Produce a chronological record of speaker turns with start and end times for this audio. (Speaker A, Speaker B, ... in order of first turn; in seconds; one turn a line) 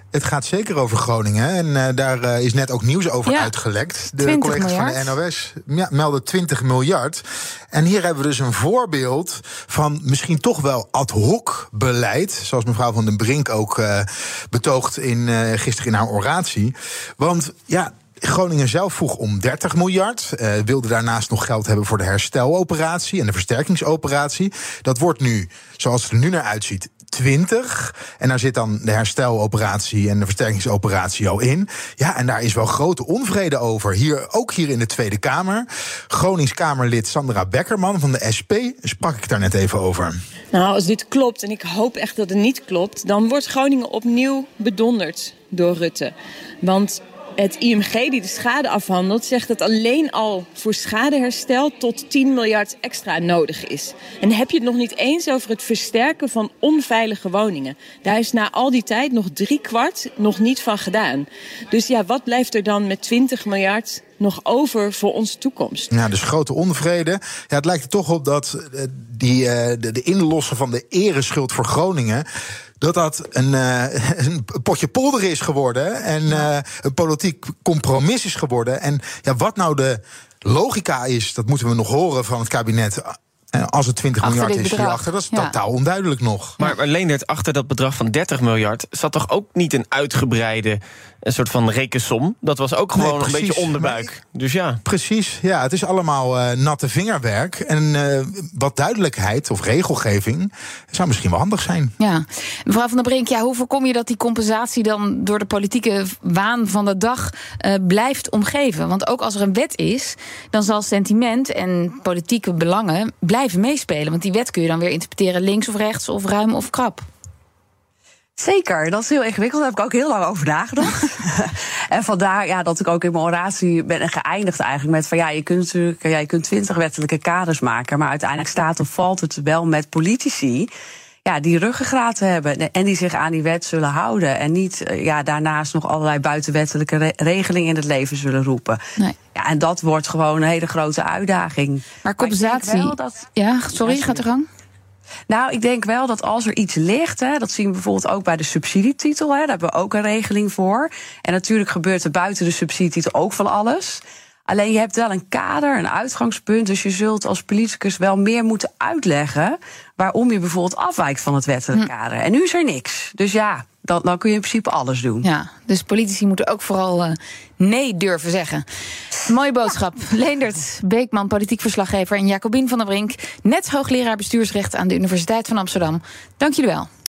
Speaker A: 0.1-40.1
Speaker B: 3.3-3.5
Speaker B: 4.2-5.1
Speaker C: 40.5-65.9
Speaker A: 65.9-72.2
Speaker A: 72.8-86.6
Speaker B: 84.2-85.5
Speaker D: 86.6-94.8
Speaker A: 93.0-94.1
Speaker A: 94.8-101.9
Speaker B: 102.0-117.1
Speaker E: 118.4-130.7
Speaker E: 131.2-138.8
Speaker E: 139.3-144.2
Speaker B: 142.0-144.5
Speaker E: 145.3-165.2
Speaker B: 165.2-168.7
Speaker B: 169.2-176.9